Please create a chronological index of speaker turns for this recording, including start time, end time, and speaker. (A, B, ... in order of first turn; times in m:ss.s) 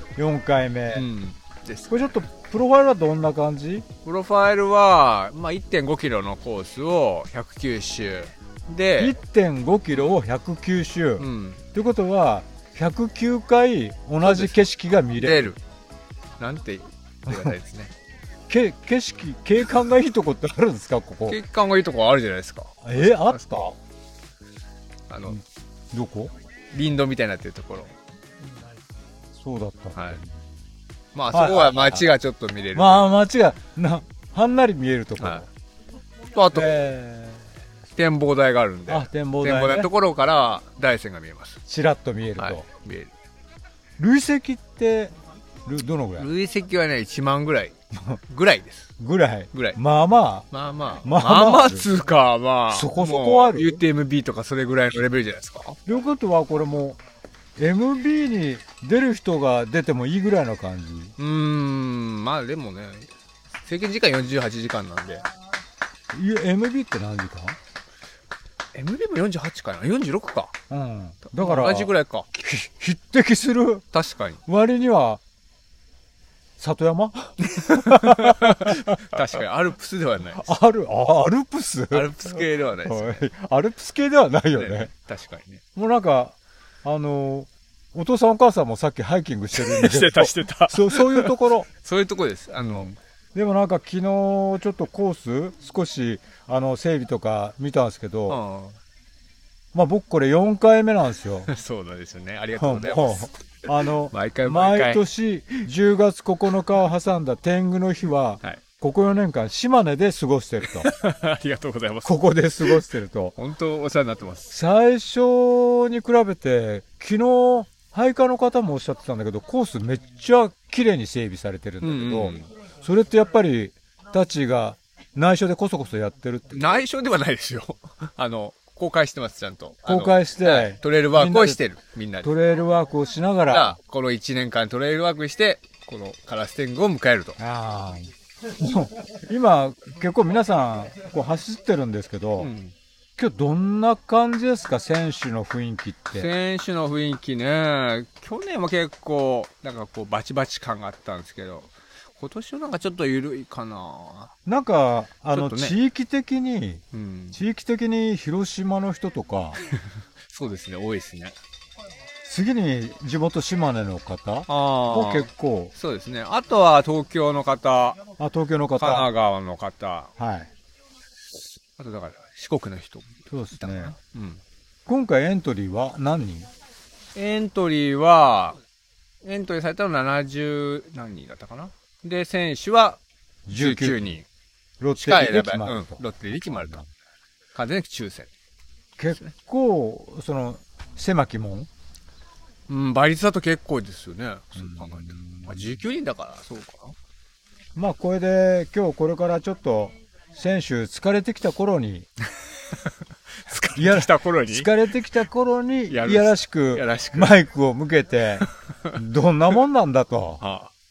0:00.2-0:01.1 A
0:00.9-0:02.1 B
0:01.9-0:03.9 A
0:04.0-0:09.2 B
0:09.0-0:15.5 A
0:11.2-0:11.6 B
0:14.2-0:15.6 B
0:16.4-0:17.9 B
0:17.3-0:17.5 A
0:18.5-0:21.4 A
0:21.3-0:23.8 B
0:22.8-0:23.7 A
0:25.1-0:25.4 B
0:25.3-0:26.3 A
0:26.7-0:27.9 B
0:29.4-0:30.4 A
0:31.2-0:33.1 B
0:31.3-0:32.1 A
0:32.7-0:35.5 A
0:35.2-0:35.4 B
0:36.4-0:36.7 B
0:36.5-0:37.5 A
0:38.0-0:41.6 B
0:38.9-0:39.9 A
0:41.7-0:42.6 A
0:42.4-0:43.1 B
0:44.0-0:45.1 A
0:45.6-0:46.3 A
0:46.2-0:47.8 B
0:48.3-0:48.9 B
0:49.0-0:50.5 A
0:49.5-0:49.8 B
0:50.5-0:55.8 B
0:51.0-0:51.8 A
0:52.7-0:53.8 A
0:55.9-0:57.0 A
0:57.6-1:01.1 A
1:01.2-1:03.1 B
1:03.6-1:05.3 B
1:06.1-1:07.6 A
1:08.7-1:10.6 B
1:10.7-1:13.8 A
1:11.3-1:12.3 B
1:13.9-1:14.4 B
1:14.5-1:15.2 A
1:16.6-1:19.0 A
1:17.6-1:20.4 B
1:20.4-1:24.9 A
1:21.9-1:23.2 B
1:24.6-1:25.6 B
1:25.8-1:31.7 A
1:29.6-1:32.9 B
1:32.6-1:38.4 A
1:38.3-1:38.8 B
1:39.7-1:41.5 A
1:41.5-1:43.3 B
1:42.6-1:50.9 A
1:44.1-1:45.0 B
1:50.8-1:52.8 B
1:52.0-1:53.3 A
1:53.4-1:54.6 B
1:54.5-2:06.7 A
2:01.8-2:02.5 B
2:06.5-2:12.3 B
2:09.9-2:11.6 A
2:12.2-2:13.8 A
2:13.5-2:17.4 B
2:17.4-2:22.5 A
2:22.4-2:22.7 B
2:23.2-2:26.3 A
2:26.1-2:34.3 B
2:34.5-2:39.6 A
2:35.3-2:35.8 B
2:36.9-2:37.4 B
2:40.3-2:41.4 B
2:42.2-2:45.7 A
2:44.5-2:48.0 B
2:48.2-2:49.1 A
2:48.8-2:50.1 B
2:50.2-2:50.5 A
2:51.8-2:54.4 B
2:53.3-2:54.0 A
2:54.9-2:56.5 A
2:57.2-2:58.6 B
2:59.2-3:03.0 B
3:03.5-3:04.0 A
3:03.5-3:04.2 B
3:04.8-3:06.0 A
3:05.0-3:06.9 B
3:06.5-3:06.8 A
3:07.5-3:08.3 B
3:09.0-3:11.7 A
3:12.7-3:17.0 B
3:14.6-3:15.6 A
3:17.8-3:22.1 A
3:23.5-3:24.7 B
3:23.8-3:30.4 A
3:25.9-3:27.3 B
3:30.4-3:30.7 B